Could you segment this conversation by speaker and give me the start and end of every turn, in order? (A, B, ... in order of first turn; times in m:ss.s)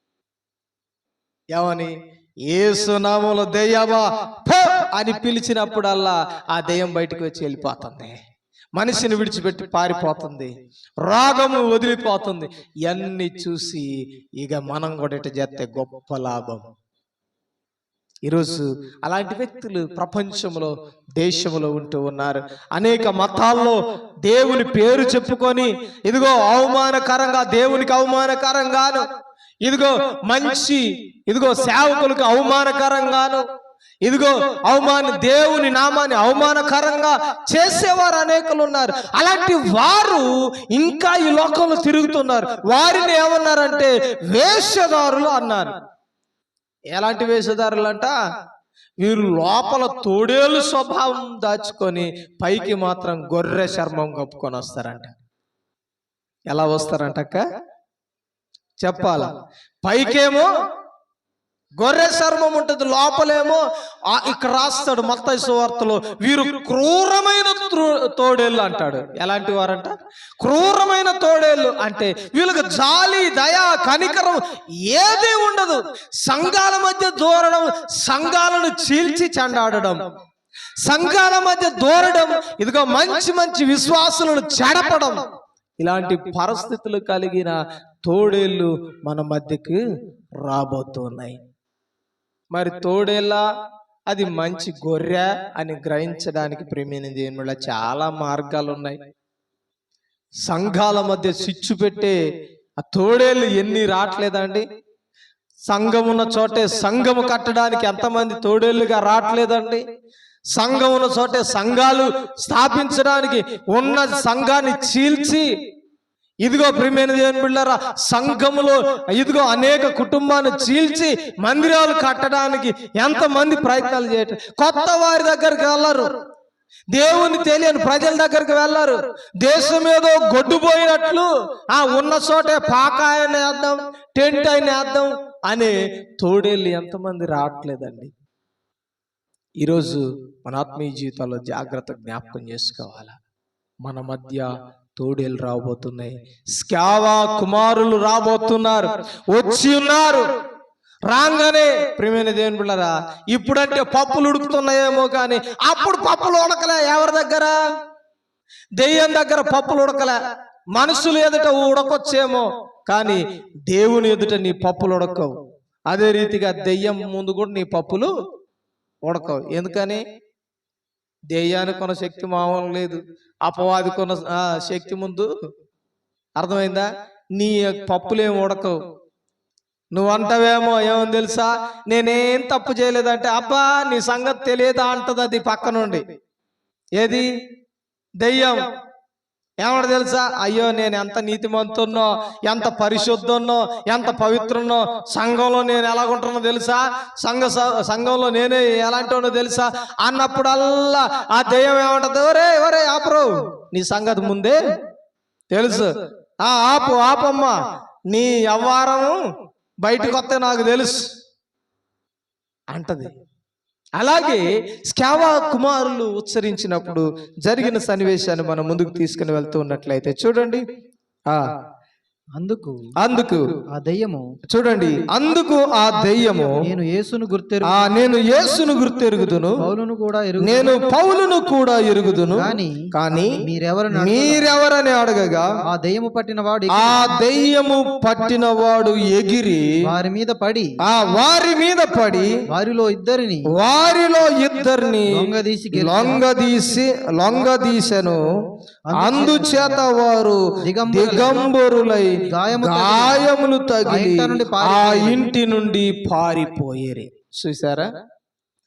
0:01.5-0:01.9 A
0:02.5-0:08.2 A
0:08.8-0:10.5 A
0:11.0-0:16.7 A
0:18.2-0:29.0 A
0:29.7-0:33.4 A
0:34.0-0:45.8 A
0:46.9-0:48.1 A
0:49.0-0:55.1 A
0:56.5-0:57.4 A
0:58.8-0:59.3 A
0:59.8-1:00.5 A
1:01.8-1:20.1 A
1:20.8-1:25.2 A
1:25.8-1:29.8 A
1:30.4-1:31.4 A
1:32.5-1:33.4 A
1:34.1-1:39.0 A
1:40.5-1:42.2 A
1:42.8-1:44.6 A
1:45.7-1:49.8 A
1:50.6-1:55.5 A
1:56.4-2:06.1 A
2:06.9-2:18.1 A
2:19.6-2:23.2 A
2:23.8-2:30.3 A
2:31.1-2:37.6 A
2:38.8-2:40.2 A
2:40.7-2:45.4 A
2:45.9-2:48.1 A
2:49.0-2:50.0 A
2:51.3-2:55.3 A
2:56.4-2:58.8 A
3:00.0-3:06.0 A
3:07.0-3:07.3 A
3:08.2-3:08.6 A
3:09.6-3:24.6 A
3:25.5-3:27.6 A
3:28.1-3:29.2 A
3:29.8-3:31.1 A
3:32.7-3:33.1 A
3:34.0-3:40.6 A
3:42.4-3:42.9 B
3:43.0-3:43.5 A
3:43.7-3:44.3 B
3:44.5-3:46.6 A
3:46.6-3:47.8 B
3:47.6-3:49.7 A
3:49.6-3:50.8 B
3:50.4-3:53.4 A
3:52.3-3:52.8 B
3:53.4-3:54.5 B
3:53.9-3:55.5 A
3:55.7-3:57.1 B
3:56.7-3:59.6 A
3:59.9-4:00.8 B
4:00.8-4:02.4 A
4:02.5-4:03.5 B
4:03.5-4:08.2 A
4:05.1-4:06.2 B
4:08.9-4:09.8 B
4:08.9-4:17.9 A
4:10.6-4:11.5 B
4:12.3-4:13.3 B
4:13.8-4:15.3 B